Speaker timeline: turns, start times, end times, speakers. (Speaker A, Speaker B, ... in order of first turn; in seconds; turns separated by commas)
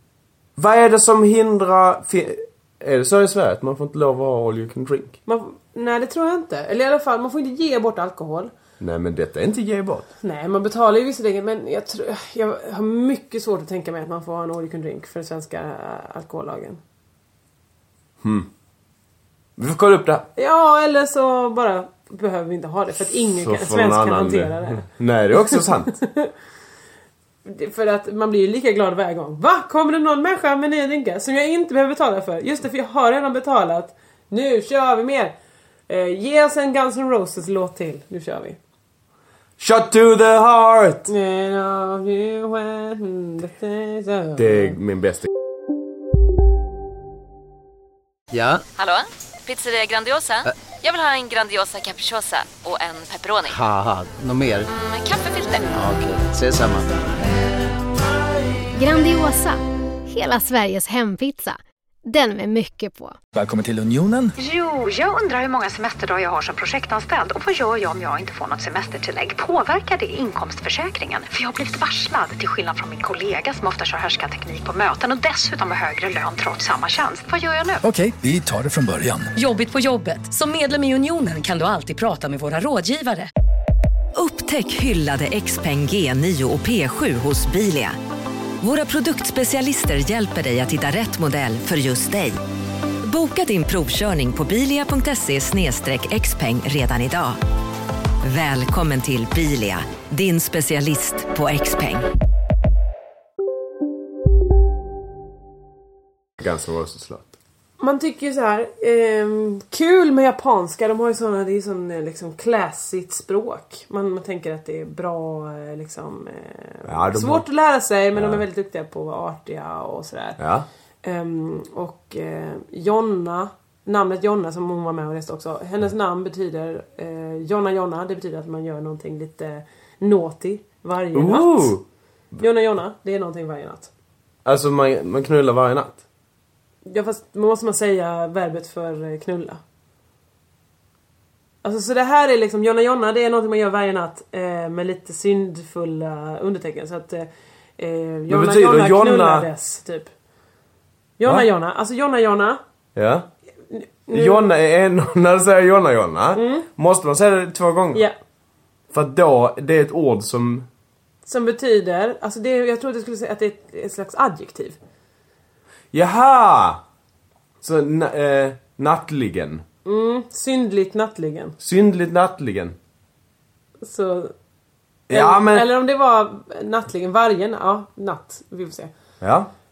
Speaker A: 0.6-5.2, Speaker B: 5.3-8.5, Speaker A: 8.8-10.1, Speaker B: 10.2-16.8, Speaker A: 18.2-18.5, Speaker A: 19.6-20.3, Speaker B: 20.4-24.9, Speaker A: 23.3-25.9, Speaker B: 25.5-26.3, Speaker B: 27.4-35.4, Speaker B: 35.9-38.6, Speaker A: 39.6-41.1, Speaker B: 41.1-44.8, Speaker A: 44.4-45.3, Speaker C: 48.3-48.6, Speaker D: 48.8-53.6, Speaker C: 53.5-54.7, Speaker D: 54.7-55.8, Speaker C: 55.7-56.9, Speaker E: 58.8-63.1, Speaker F: 63.3-64.3, Speaker G: 64.4-77.8, Speaker F: 77.8-79.3, Speaker H: 79.4-83.3, Speaker I: 84.1-88.0, Speaker I: 88.6-92.4, Speaker I: 93.0-97.4, Speaker I: 98.2-102.0, Speaker A: 106.4-107.3, Speaker B: 107.8-120.4, Speaker A: 116.9-117.4, Speaker A: 118.1-118.4, Speaker A: 120.4-120.7, Speaker B: 121.0-131.8, Speaker A: 131.1-131.8, Speaker B: 132.4-133.9, Speaker A: 134.4-136.0, Speaker B: 136.9-139.6, Speaker B: 141.6-150.1, Speaker A: 148.3-149.5, Speaker B: 151.2-152.6, Speaker A: 152.9-153.3, Speaker B: 153.7-154.5, Speaker A: 154.1-158.1, Speaker B: 156.3-156.7, Speaker A: 158.9-160.7, Speaker B: 161.3-164.8, Speaker A: 165.9-166.8, Speaker A: 167.6-169.6, Speaker B: 169.8-171.6, Speaker A: 171.6-172.8, Speaker B: 173.8-174.3, Speaker A: 175.1-175.7, Speaker B: 175.1-178.9, Speaker A: 179.2-179.5